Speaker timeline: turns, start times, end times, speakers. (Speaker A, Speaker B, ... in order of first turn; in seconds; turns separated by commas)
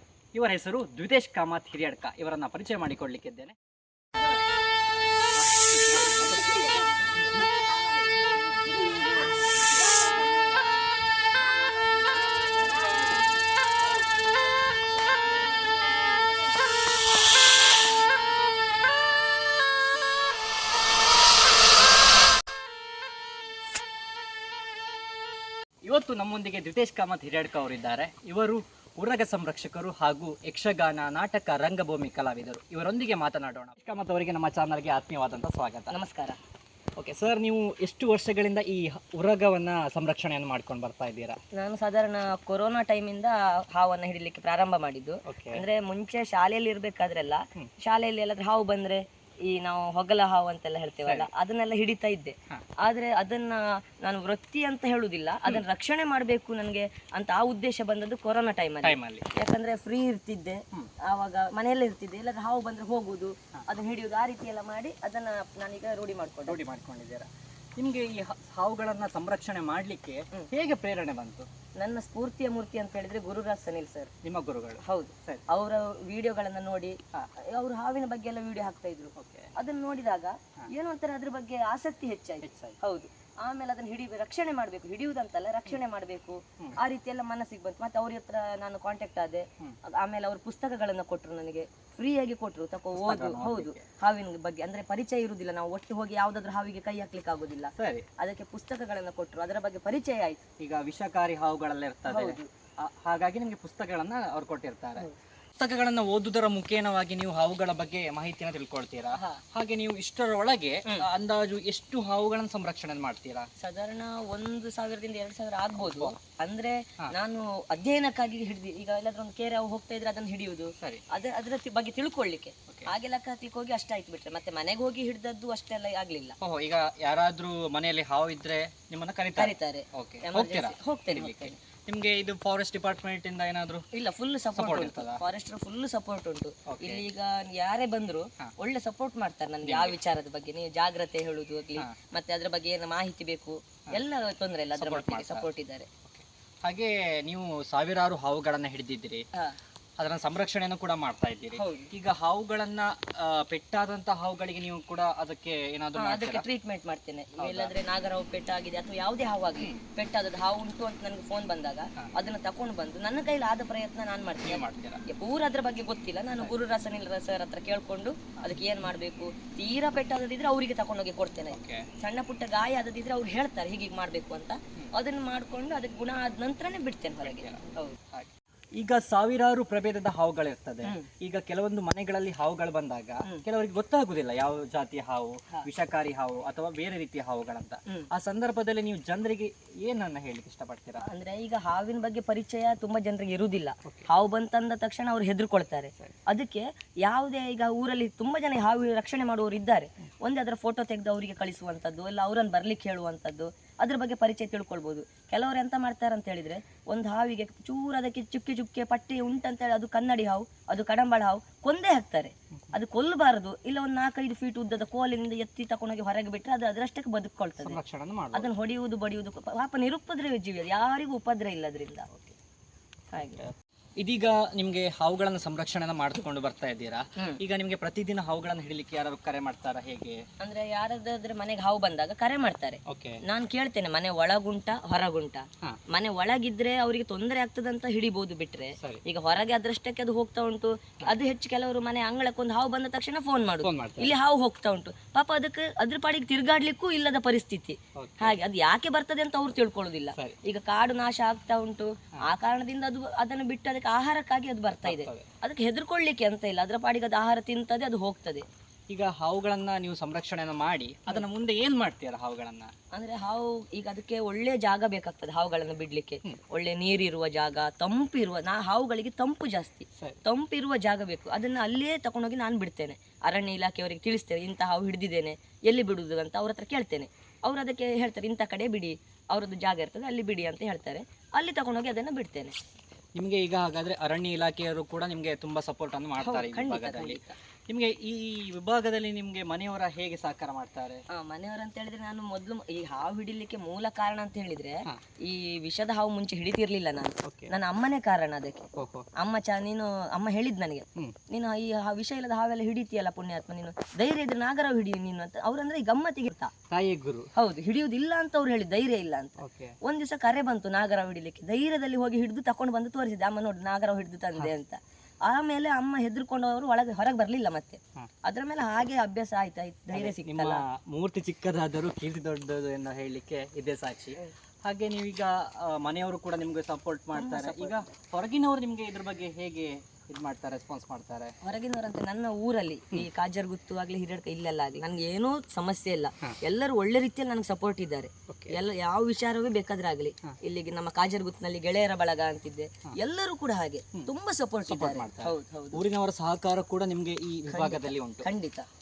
Speaker A: 0.3-3.5, Speaker A: 25.9-35.9, Speaker B: 35.9-36.4, Speaker A: 37.0-41.4, Speaker B: 41.6-66.6, Speaker A: 45.3-45.6, Speaker A: 51.0-51.3, Speaker A: 58.8-59.3, Speaker A: 66.5-71.5, Speaker B: 71.8-74.1, Speaker A: 74.2-75.4, Speaker B: 74.8-77.0, Speaker B: 77.5-100.4, Speaker A: 79.2-79.5, Speaker A: 82.4-82.8, Speaker A: 92.9-93.9, Speaker A: 97.8-98.1, Speaker A: 100.6-105.1, Speaker B: 102.1-102.5, Speaker A: 105.6-113.5, Speaker B: 109.2-109.4, Speaker B: 113.6-126.4, Speaker A: 115.8-116.2, Speaker A: 126.4-133.9, Speaker B: 129.4-131.6, Speaker B: 133.9-145.9, Speaker A: 134.5-135.2, Speaker A: 136.7-137.0, Speaker A: 139.6-140.0, Speaker A: 144.8-145.5, Speaker A: 146.1-149.2, Speaker A: 150.0-156.4, Speaker B: 151.6-151.9, Speaker B: 156.0-177.9, Speaker A: 157.4-157.7, Speaker A: 159.6-159.8, Speaker A: 164.4-165.0, Speaker A: 171.5-171.9, Speaker A: 177.2-191.0, Speaker B: 191.0-217.8, Speaker A: 217.6-218.5, Speaker B: 218.3-222.1, Speaker A: 222.1-222.4, Speaker B: 223.1-223.4, Speaker A: 223.4-230.2, Speaker B: 230.4-258.4, Speaker A: 232.9-233.2, Speaker A: 243.6-244.2, Speaker A: 248.0-248.4, Speaker A: 254.8-255.3, Speaker A: 258.9-262.7, Speaker B: 262.9-282.6, Speaker A: 283.2-291.0, Speaker B: 286.2-287.4, Speaker B: 291.1-306.5, Speaker A: 297.2-297.5, Speaker A: 298.8-299.1, Speaker A: 306.7-307.3, Speaker B: 307.4-320.6, Speaker A: 309.4-309.8, Speaker A: 319.9-331.3, Speaker B: 327.1-327.9, Speaker B: 331.4-345.8, Speaker A: 338.3-338.6, Speaker A: 344.7-348.3, Speaker B: 347.5-348.7